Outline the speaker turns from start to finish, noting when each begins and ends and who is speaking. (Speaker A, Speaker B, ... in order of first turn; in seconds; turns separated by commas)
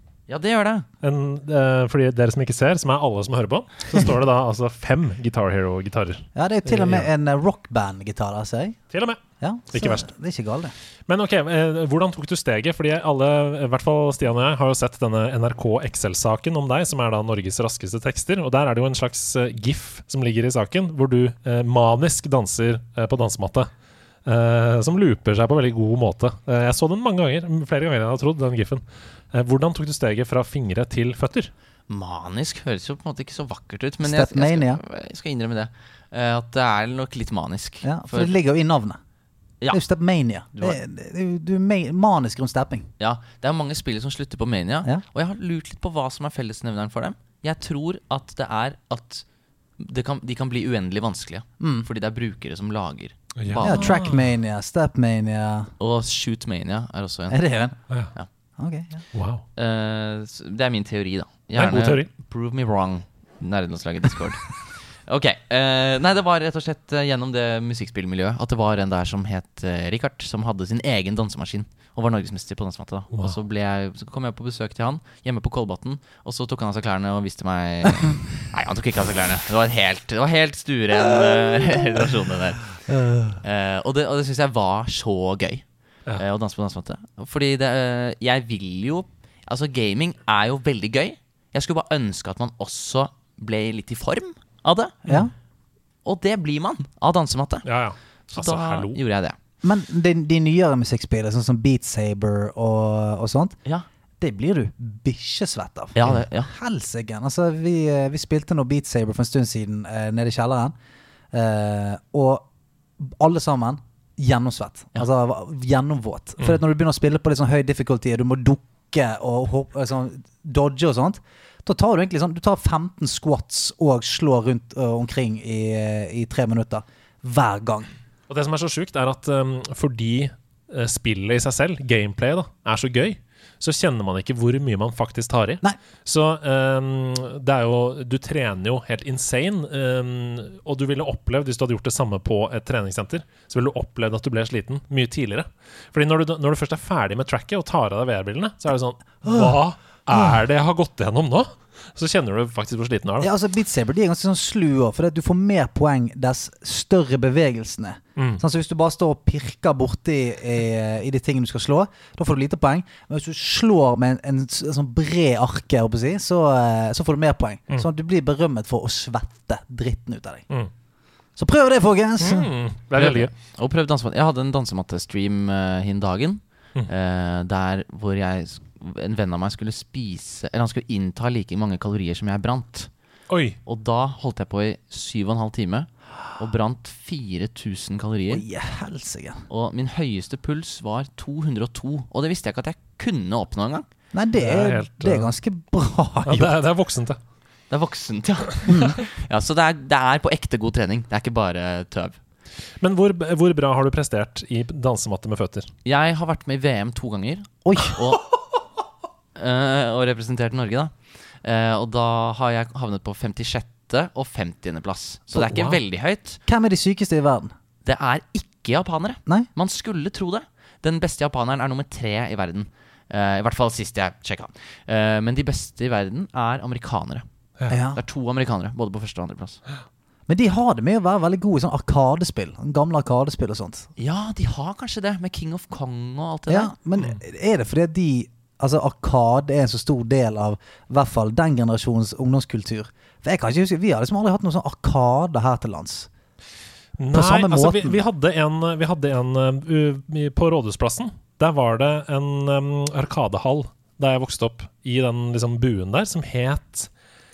Speaker A: 0.3-0.9, Speaker B: 1.0-7.1, Speaker C: 6.4-8.8, Speaker B: 8.9-9.2, Speaker C: 9.4-10.7, Speaker B: 9.7-10.1, Speaker B: 11.1-23.7, Speaker B: 24.2-31.5, Speaker A: 31.9-38.4, Speaker C: 34.0-34.8, Speaker C: 37.8-39.0, Speaker C: 39.7-42.9, Speaker A: 43.0-49.2, Speaker A: 49.8-53.9, Speaker C: 51.6-51.9, Speaker B: 53.4-54.2, Speaker C: 53.6-55.7, Speaker A: 55.8-57.4, Speaker C: 57.3-57.8, Speaker C: 58.6-59.0, Speaker B: 59.1-59.4, Speaker A: 59.6-82.8, Speaker B: 61.6-62.1, Speaker C: 82.9-83.4, Speaker A: 83.4-85.6, Speaker A: 86.2-95.1, Speaker C: 95.1-95.3, Speaker A: 96.0-97.7, Speaker B: 97.7-99.0, Speaker A: 98.3-99.4, Speaker C: 99.6-103.6, Speaker C: 104.2-110.8, Speaker A: 106.0-106.5, Speaker C: 111.3-112.5, Speaker C: 113.0-127.9, Speaker B: 128.3-153.3, Speaker C: 149.3-149.6, Speaker C: 153.2-170.4, Speaker B: 158.2-158.4, Speaker C: 171.4-172.5, Speaker B: 172.2-173.3, Speaker A: 173.0-182.9, Speaker B: 183.3-183.6, Speaker A: 183.7-188.4, Speaker C: 188.3-189.4, Speaker A: 189.5-193.9, Speaker C: 194.1-196.6, Speaker B: 194.4-195.3, Speaker B: 196.3-197.2, Speaker A: 197.7-202.2, Speaker C: 198.7-199.0, Speaker B: 202.8-205.7, Speaker A: 205.8-208.3, Speaker C: 207.7-208.0, Speaker A: 209.4-210.9, Speaker A: 211.4-216.4, Speaker B: 215.5-215.8, Speaker C: 216.5-217.5, Speaker A: 217.8-227.2, Speaker C: 227.7-228.0, Speaker A: 227.9-229.6, Speaker C: 230.3-233.9, Speaker A: 234.0-236.7, Speaker C: 236.5-246.1, Speaker B: 247.0-256.9, Speaker C: 247.1-248.0